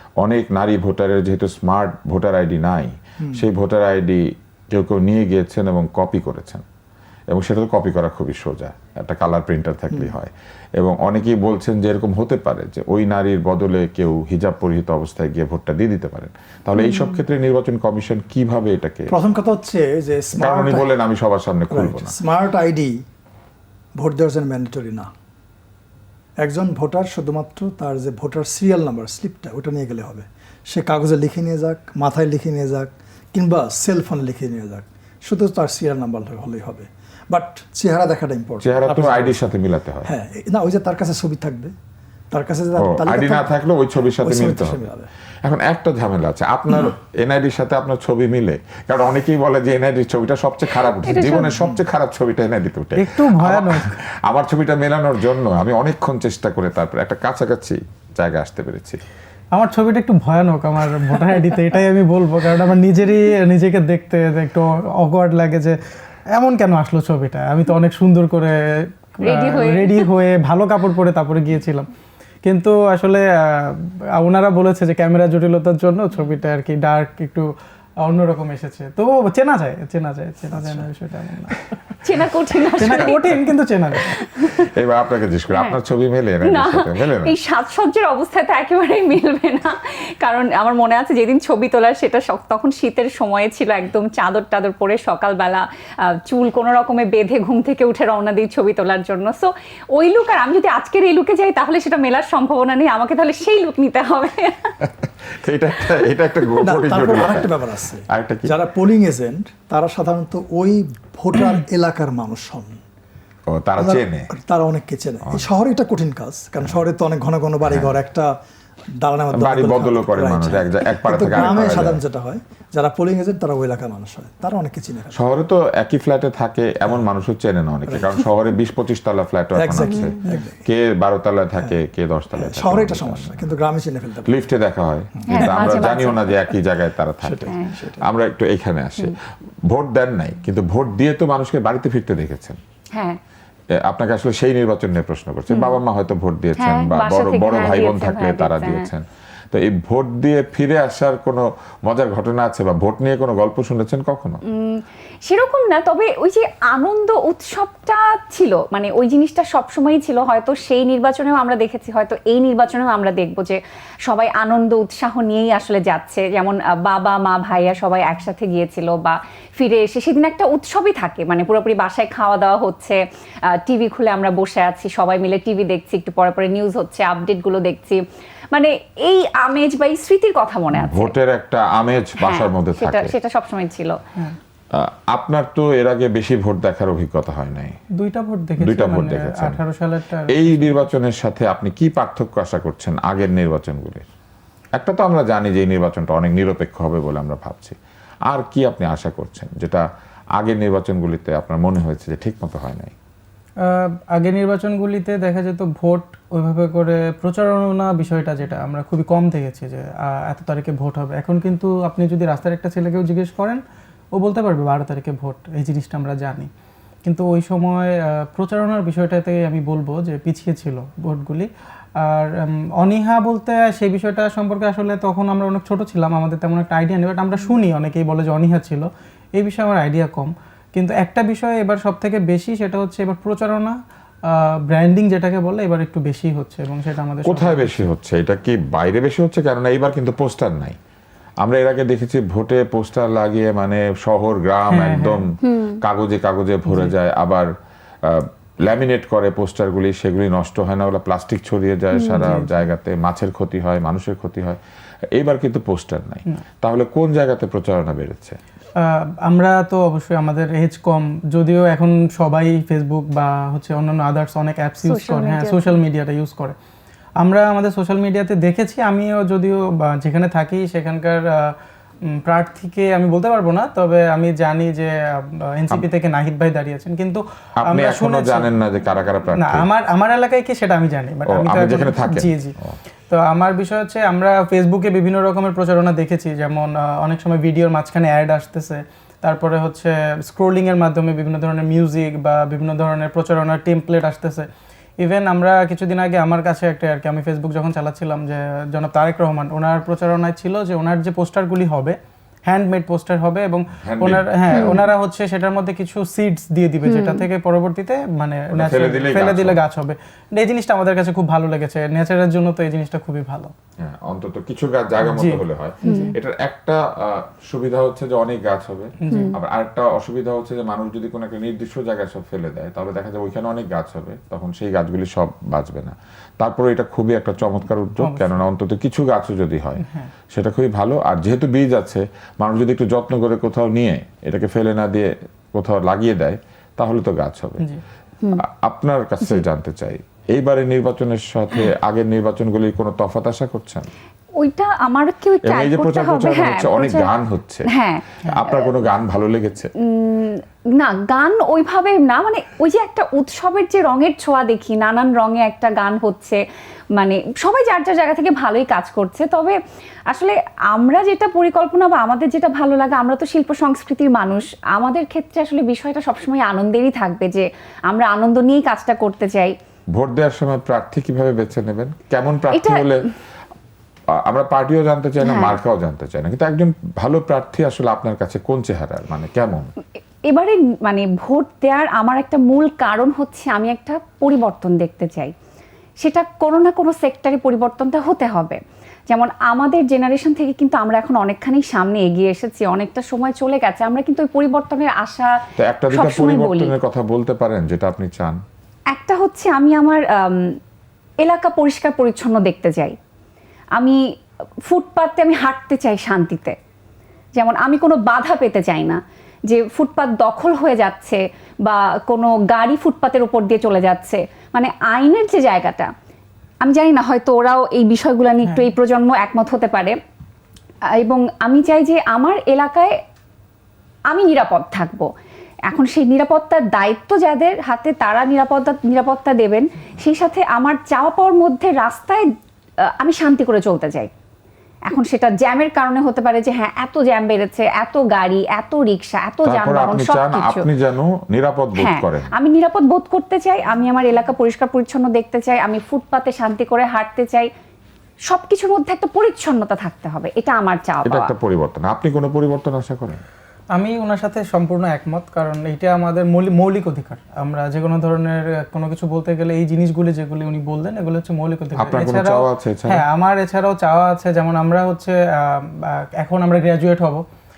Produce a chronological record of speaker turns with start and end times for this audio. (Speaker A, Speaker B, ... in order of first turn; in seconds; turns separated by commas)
Speaker A: 0.2-6.6, Speaker A: 7.3-19.1, Speaker B: 16.8-17.1, Speaker C: 19.1-20.9, Speaker A: 20.3-22.1, Speaker C: 21.7-23.0, Speaker C: 23.9-25.1, Speaker C: 26.4-39.4, Speaker A: 38.6-40.1, Speaker C: 40.0-41.7, Speaker C: 42.3-43.5, Speaker A: 42.8-44.8, Speaker C: 44.2-45.1, Speaker A: 45.4-59.0, Speaker B: 51.0-51.5, Speaker C: 51.4-51.8, Speaker D: 52.9-53.9, Speaker D: 59.5-65.8, Speaker D: 66.3-71.9, Speaker B: 69.2-70.0, Speaker D: 72.4-77.5, Speaker D: 78.0-81.6, Speaker B: 82.0-83.4, Speaker D: 82.8-84.2, Speaker A: 82.9-83.4, Speaker B: 84.0-84.7, Speaker A: 84.4-87.3, Speaker B: 86.4-104.7, Speaker A: 104.8-108.5, Speaker C: 106.6-112.8, Speaker A: 113.5-114.3, Speaker C: 113.8-118.3, Speaker A: 117.6-118.0, Speaker C: 119.0-125.2, Speaker A: 119.3-122.0, Speaker A: 125.1-133.5, Speaker C: 127.9-128.2, Speaker C: 129.6-130.6, Speaker B: 129.9-130.4, Speaker C: 132.4-134.3, Speaker A: 134.2-139.2, Speaker C: 135.2-135.8, Speaker B: 135.3-136.3, Speaker C: 137.2-138.1, Speaker A: 139.7-142.6, Speaker A: 143.8-154.4, Speaker B: 145.5-145.8, Speaker B: 146.6-148.9, Speaker B: 154.4-173.0, Speaker B: 173.5-181.1, Speaker A: 180.7-183.1, Speaker B: 182.2-184.0, Speaker A: 184.7-187.8, Speaker D: 188.0-190.8, Speaker A: 188.6-189.6, Speaker A: 190.3-194.1, Speaker A: 194.7-199.8, Speaker A: 200.4-202.9, Speaker D: 203.6-213.6, Speaker D: 214.2-216.5, Speaker D: 217.0-221.5, Speaker D: 222.0-237.8, Speaker A: 237.2-240.8, Speaker A: 241.4-247.5, Speaker D: 244.7-245.3, Speaker B: 245.4-245.8, Speaker D: 246.7-246.9, Speaker A: 248.0-254.6, Speaker D: 252.1-252.5, Speaker A: 255.1-258.4, Speaker D: 258.8-266.6, Speaker B: 264.8-265.8, Speaker D: 267.2-271.5, Speaker D: 272.1-278.5, Speaker A: 277.6-279.7, Speaker D: 279.4-282.6, Speaker A: 281.3-282.8, Speaker D: 283.1-294.5, Speaker D: 295.0-313.5, Speaker A: 303.8-304.8, Speaker B: 304.5-304.8, Speaker B: 306.8-307.2, Speaker A: 308.5-309.6, Speaker A: 313.8-337.7, Speaker D: 315.1-316.1, Speaker B: 315.8-316.1, Speaker D: 319.0-319.3, Speaker B: 319.1-319.4, Speaker D: 328.0-328.4, Speaker A: 338.4-343.9, Speaker B: 344.4-347.1, Speaker A: 345.4-347.7, Speaker B: 347.7-348.6, Speaker A: 348.2-349.7, Speaker B: 349.8-356.4, Speaker B: 356.9-359.6, Speaker B: 360.1-369.5, Speaker A: 369.9-373.0, Speaker B: 372.5-372.9, Speaker A: 374.1-379.7, Speaker B: 375.2-375.6, Speaker B: 380.3-385.3, Speaker B: 386.0-388.6, Speaker B: 389.1-395.4, Speaker A: 395.6-398.4, Speaker B: 395.9-396.7, Speaker B: 398.9-400.6, Speaker B: 401.2-402.9, Speaker B: 404.6-406.6, Speaker B: 407.4-415.9, Speaker B: 416.6-420.0, Speaker B: 420.9-423.0, Speaker B: 424.1-425.1, Speaker B: 425.7-432.2, Speaker B: 432.9-434.1, Speaker B: 434.9-440.6, Speaker A: 439.4-442.3, Speaker B: 441.8-447.5, Speaker B: 448.3-451.3, Speaker A: 451.0-453.2, Speaker D: 453.7-467.2, Speaker A: 461.8-463.0